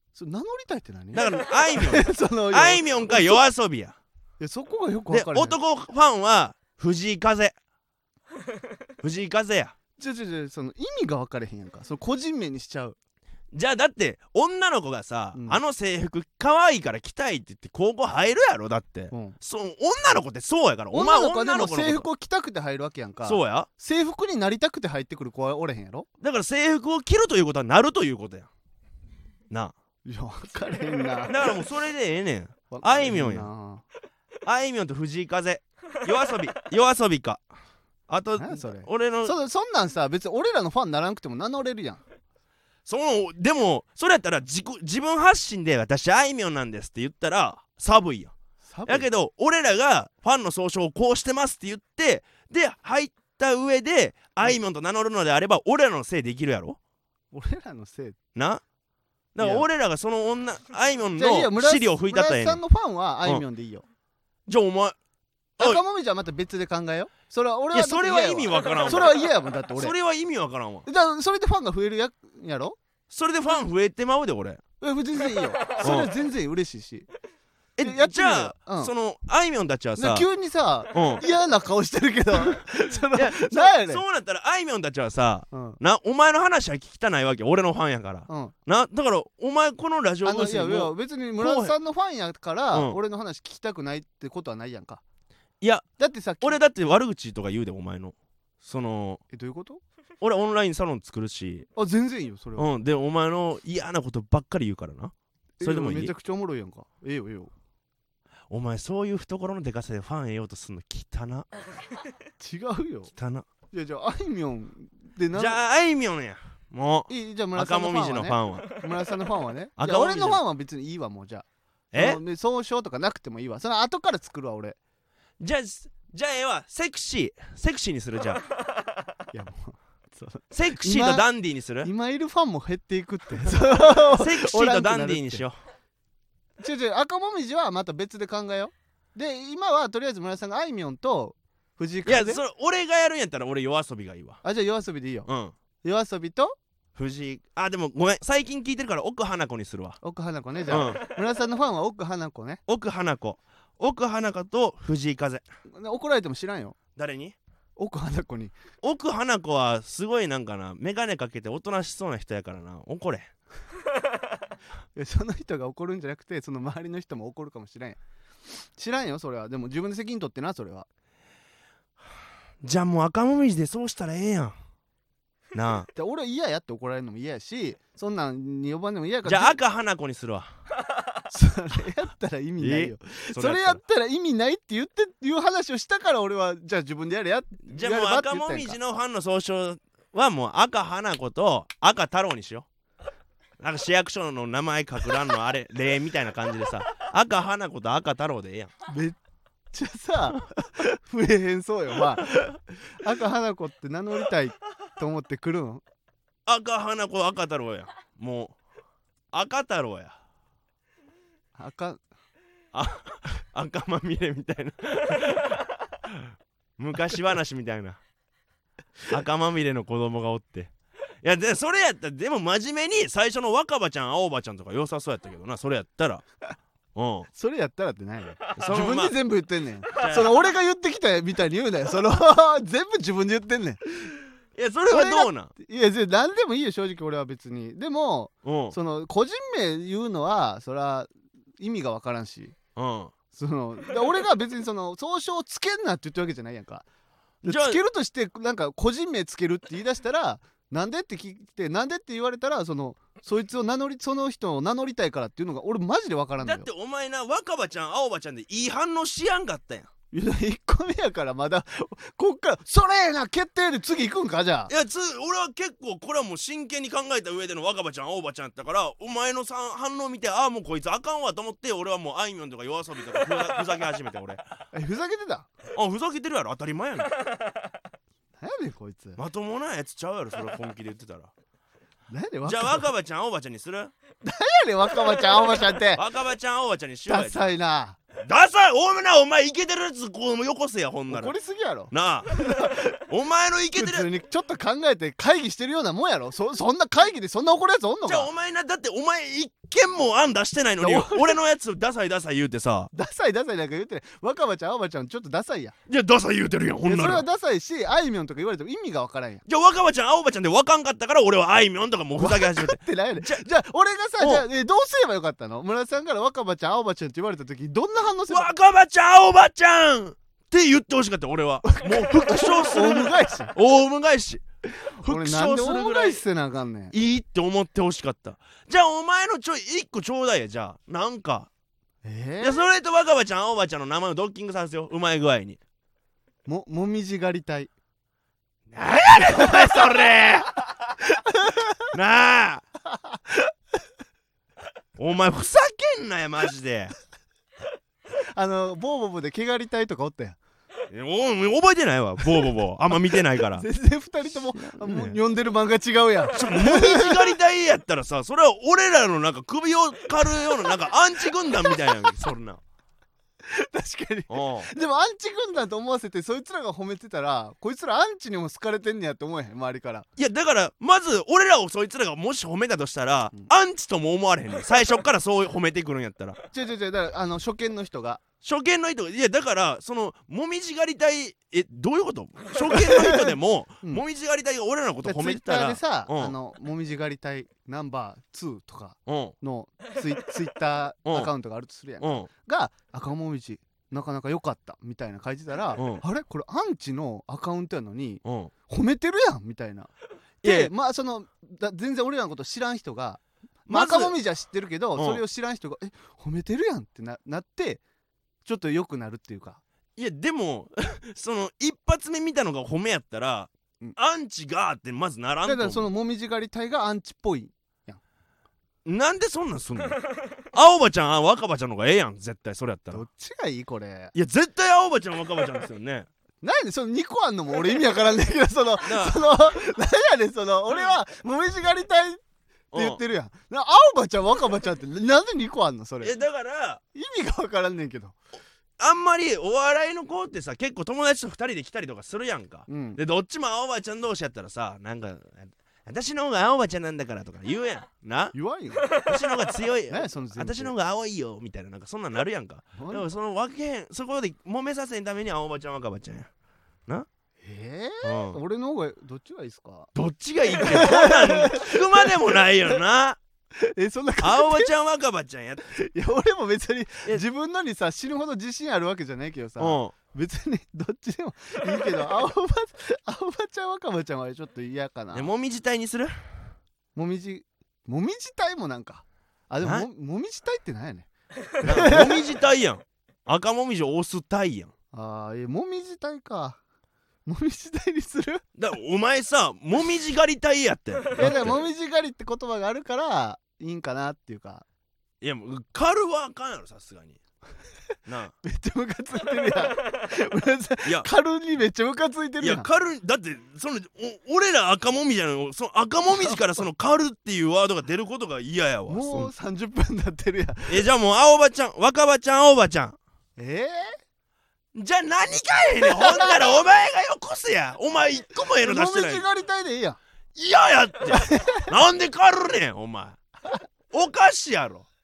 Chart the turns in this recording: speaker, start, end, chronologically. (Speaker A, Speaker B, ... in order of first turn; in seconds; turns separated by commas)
Speaker A: 0.1-3.4, Speaker B: 1.1-4.0, Speaker A: 4.4-5.6, Speaker B: 5.1-7.5, Speaker B: 9.0-9.7, Speaker A: 10.0-13.0, Speaker B: 13.5-22.1, Speaker A: 15.3-15.6, Speaker A: 19.1-19.4, Speaker A: 20.9-26.1, Speaker B: 23.2-23.7, Speaker B: 26.2-28.5, Speaker A: 30.0-31.6, Speaker B: 31.2-33.5, Speaker A: 32.7-33.8, Speaker B: 34.4-37.4, Speaker B: 38.1-39.3, Speaker A: 38.4-42.0, Speaker B: 42.9-48.3, Speaker A: 48.6-49.1, Speaker B: 48.9-56.8, Speaker A: 57.3-58.2, Speaker B: 58.3-58.6, Speaker B: 59.3-62.6, Speaker A: 59.4-59.7, Speaker A: 61.2-63.8, Speaker B: 64.5-65.0, Speaker A: 65.6-69.9, Speaker B: 67.7-70.9, Speaker A: 70.8-72.8, Speaker B: 73.1-74.6, Speaker A: 74.8-77.1, Speaker B: 75.8-76.1, Speaker B: 77.8-80.2, Speaker A: 77.8-78.9, Speaker A: 80.0-84.0, Speaker B: 80.9-81.2, Speaker B: 83.1-91.7, Speaker A: 85.5-85.8, Speaker A: 88.3-88.5, Speaker A: 90.2-95.0, Speaker B: 92.7-93.0, Speaker B: 95.6-95.8, Speaker A: 96.0-96.6, Speaker B: 96.4-99.2, Speaker A: 99.3-99.8, Speaker B: 100.2-101.7, Speaker A: 101.7-102.7, Speaker B: 102.5-106.1, Speaker A: 105.6-107.5, Speaker B: 108.5-111.5, Speaker A: 112.4-113.1, Speaker B: 113.1-113.5, Speaker A: 113.7-115.6, Speaker B: 115.3-118.7, Speaker A: 117.1-124.8, Speaker B: 119.8-120.4, Speaker B: 121.9-122.2, Speaker B: 125.4-128.4, Speaker A: 129.3-131.2, Speaker B: 130.5-131.9, Speaker A: 131.8-135.4, Speaker B: 134.0-135.5, Speaker A: 136.6-142.4, Speaker B: 142.1-144.4, Speaker A: 144.4-145.3, Speaker B: 145.3-145.5, Speaker A: 145.8-146.6, Speaker B: 146.9-150.0, Speaker A: 150.0-152.6, Speaker B: 150.7-151.1, Speaker B: 152.7-155.4, Speaker A: 155.7-156.8, Speaker B: 156.9-157.3, Speaker A: 157.8-158.5, Speaker B: 158.8-163.3, Speaker A: 164.9-170.9, Speaker B: 172.6-174.5, Speaker B: 175.5-175.9, Speaker A: 175.9-179.6, Speaker B: 179.2-180.5, Speaker A: 181.3-188.8, Speaker B: 182.6-183.8, Speaker B: 187.7-192.7, Speaker B: 193.6-198.7, Speaker A: 198.9-199.2, Speaker A: 199.7-205.8, Speaker B: 206.4-208.6, Speaker B: 209.3-210.2, Speaker A: 211.6-212.0, Speaker B: 212.7-218.0, Speaker B: 219.1-220.7, Speaker B: 221.2-226.2, Speaker B: 226.9-227.3, Speaker A: 227.3-234.1, Speaker B: 228.5-229.2, Speaker B: 229.9-230.4, Speaker B: 234.6-235.5, Speaker A: 234.9-242.5, Speaker B: 238.4-238.8, Speaker B: 242.8-243.1, Speaker A: 243.3-246.8, Speaker A: 247.4-256.7, Speaker B: 247.4-247.8, Speaker B: 256.4-259.9, Speaker A: 260.1-264.7, Speaker B: 264.7-274.4, Speaker A: 274.7-275.5, Speaker B: 275.7-277.2, Speaker A: 278.4-279.2, Speaker B: 279.2-281.3, Speaker A: 282.1-282.9, Speaker B: 282.4-283.9, Speaker A: 284.2-286.0, Speaker B: 285.9-287.5, Speaker A: 287.1-288.0, Speaker B: 288.2-291.3, Speaker A: 291.1-293.0, Speaker B: 291.9-294.1, Speaker A: 293.7-298.3, Speaker B: 298.1-302.9, Speaker A: 300.8-301.4, Speaker A: 302.9-305.7, Speaker B: 305.9-307.2, Speaker A: 306.9-309.4, Speaker B: 309.4-313.4, Speaker A: 312.2-318.5, Speaker B: 314.2-314.4, Speaker B: 318.3-326.2, Speaker A: 321.7-323.5, Speaker A: 324.9-326.9, Speaker B: 326.9-331.5, Speaker A: 332.0-332.6, Speaker B: 332.4-335.6, Speaker A: 336.4-337.7, Speaker B: 338.7-340.6, Speaker A: 339.2-340.1, Speaker A: 341.0-341.9, Speaker B: 341.9-342.6, Speaker A: 342.9-343.5, Speaker B: 345.0-346.9, Speaker A: 348.3-350.4, Speaker B: 350.9-353.6, Speaker A: 353.5-357.4, Speaker B: 354.6-355.2, Speaker B: 356.3-362.6, Speaker A: 360.2-360.8, Speaker A: 361.5-362.3, Speaker A: 363.4-370.1, Speaker B: 364.3-364.7, Speaker B: 370.2-376.4, Speaker A: 376.5-378.2, Speaker B: 378.4-386.3, Speaker A: 382.7-384.0, Speaker A: 385.0-399.9, Speaker B: 389.1-389.3, Speaker B: 392.0-392.3, Speaker B: 395.7-396.0, Speaker B: 398.2-398.5, Speaker B: 400.4-400.7, Speaker A: 400.4-407.8, Speaker B: 403.7-404.2, Speaker B: 404.9-405.2, Speaker A: 408.4-409.6, Speaker B: 410.0-415.9, Speaker A: 415.4-418.0, Speaker B: 418.8-423.0, Speaker A: 422.9-424.1, Speaker B: 424.1-426.1, Speaker A: 426.4-432.2, Speaker B: 428.8-429.2, Speaker B: 432.7-433.0, Speaker A: 432.7-436.1, Speaker B: 436.0-436.8, Speaker A: 436.9-438.1, Speaker B: 438.8-448.3, Speaker A: 442.7-443.0, Speaker A: 448.3-448.9, Speaker B: 448.9-456.3, Speaker A: 449.9-450.7, Speaker A: 452.8-453.1, Speaker A: 457.4-459.9, Speaker B: 458.0-458.4, Speaker B: 459.9-463.2, Speaker A: 460.4-462.8, Speaker A: 463.5-464.7, Speaker B: 464.2-465.7, Speaker A: 465.7-475.3, Speaker B: 469.6-469.9, Speaker B: 475.1-476.4, Speaker A: 476.9-481.1, Speaker B: 479.6-479.9, Speaker A: 481.6-482.2, Speaker B: 481.6-484.7, Speaker A: 484.9-486.6, Speaker A: 487.2-488.4, Speaker B: 488.6-491.6, Speaker A: 491.1-494.6, Speaker B: 495.2-497.2, Speaker B: 498.1-498.3, Speaker A: 498.4-502.7, Speaker B: 502.4-509.3, Speaker A: 508.9-510.9, Speaker B: 510.7-513.0, Speaker A: 513.4-514.0, Speaker B: 514.7-519.2, Speaker A: 515.8-516.5, Speaker A: 518.6-520.0, Speaker B: 520.3-523.2, Speaker A: 521.1-521.7, Speaker B: 523.9-524.9